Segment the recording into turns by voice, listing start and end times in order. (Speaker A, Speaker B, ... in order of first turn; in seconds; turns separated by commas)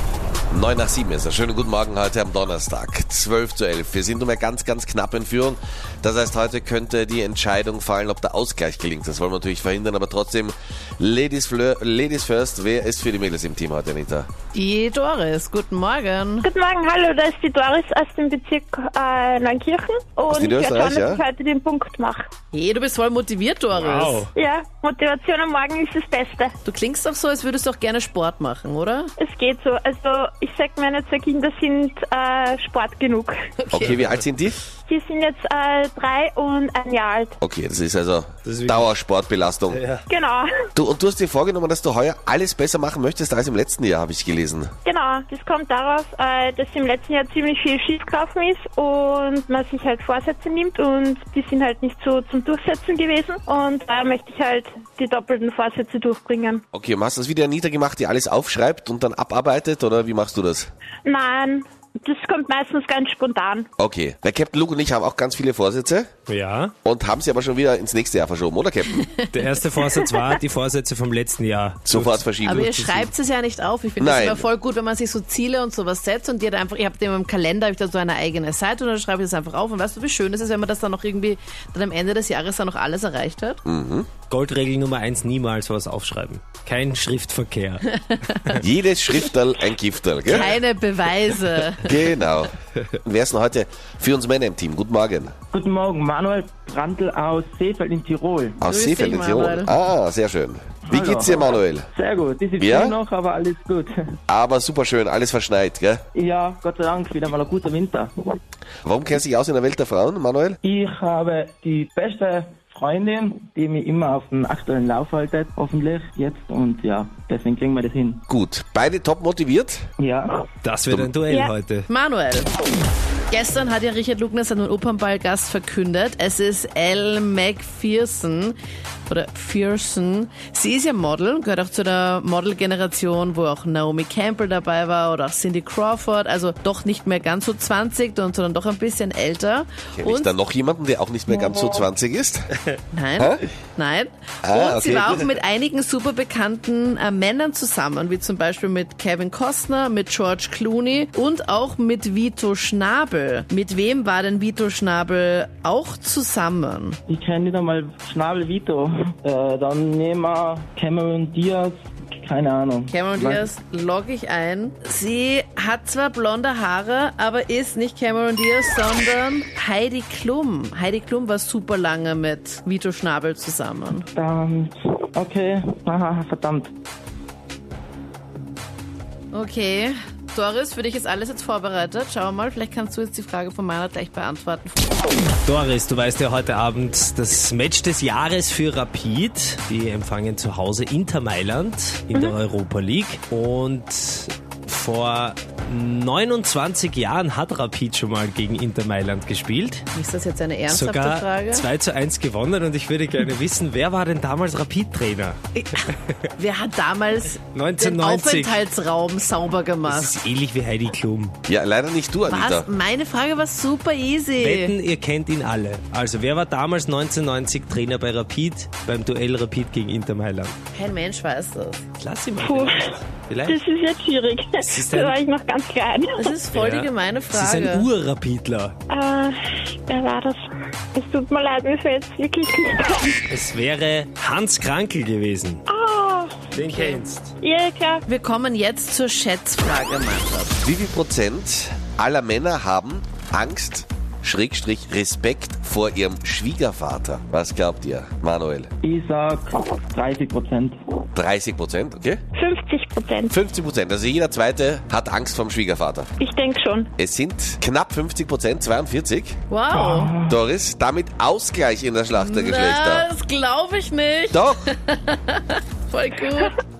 Speaker A: 0.5-14.3, Speaker B: 14.5-16.5, Speaker C: 16.4-22.3, Speaker A: 20.3-21.2, Speaker B: 22.5-24.2, Speaker D: 23.7-24.3, Speaker C: 24.3-26.5, Speaker B: 26.6-29.1, Speaker C: 29.2-33.3, Speaker A: 33.7-34.6, Speaker C: 34.9-37.3, Speaker A: 37.4-39.8, Speaker D: 38.4-38.9, Speaker D: 39.7-40.0, Speaker C: 40.1-40.5, Speaker A: 40.7-44.7, Speaker C: 44.8-56.6, Speaker A: 56.7-60.7, Speaker C: 61.0-63.7, Speaker A: 63.8-66.1, Speaker D: 66.3-66.7, Speaker A: 66.8-69.0, Speaker D: 69.3-73.1, Speaker A: 71.8-72.7, Speaker B: 72.4-83.6, Speaker A: 74.0-74.5, Speaker A: 83.6-84.1, Speaker D: 84.3-88.6, Speaker A: 88.6-90.5, Speaker B: 90.3-92.0, Speaker A: 91.8-92.5, Speaker A: 93.0-95.3, Speaker E: 95.5-98.6, Speaker A: 98.6-101.9, Speaker B: 98.7-99.7, Speaker E: 100.9-104.1, Speaker A: 102.6-102.9, Speaker A: 104.3-106.0, Speaker E: 106.1-108.1, Speaker A: 108.8-110.6, Speaker E: 110.6-118.2, Speaker A: 118.3-119.8, Speaker E: 120.0-120.5, Speaker D: 120.6-121.9, Speaker B: 121.9-122.5, Speaker B: 123.3-128.6, Speaker B: 129.1-140.3, Speaker A: 139.9-142.5, Speaker B: 142.9-157.0, Speaker A: 144.4-145.3, Speaker E: 157.1-163.5, Speaker B: 162.9-174.1, Speaker E: 174.1-176.7, Speaker B: 179.3-185.0, Speaker D: 185.5-199.8, Speaker B: 199.9-201.7, Speaker D: 200.7-205.4, Speaker B: 205.5-210.2, Speaker D: 207.5-208.6, Speaker D: 209.8-211.3, Speaker A: 211.5-212.7, Speaker B: 212.3-214.7, Speaker D: 214.4-220.5, Speaker B: 220.7-221.8, Speaker D: 222.0-223.6, Speaker C: 222.4-222.9, Speaker C: 223.4-226.3, Speaker D: 224.6-225.2, Speaker B: 226.2-227.9, Speaker D: 226.5-228.7, Speaker C: 228.9-230.4, Speaker C: 230.9-233.2, Speaker D: 233.3-235.6, Speaker C: 235.7-238.0, Speaker D: 236.5-237.3, Speaker B: 238.1-240.6, Speaker A: 240.6-248.7, Speaker E: 248.8-250.8, Speaker A: 251.1-252.2, Speaker C: 252.3-253.3, Speaker A: 253.3-256.1, Speaker C: 256.2-256.9, Speaker A: 257.0-259.4, Speaker B: 259.5-260.1, Speaker E: 259.7-260.4, Speaker A: 260.3-263.1, Speaker B: 262.2-266.6, Speaker A: 264.3-264.7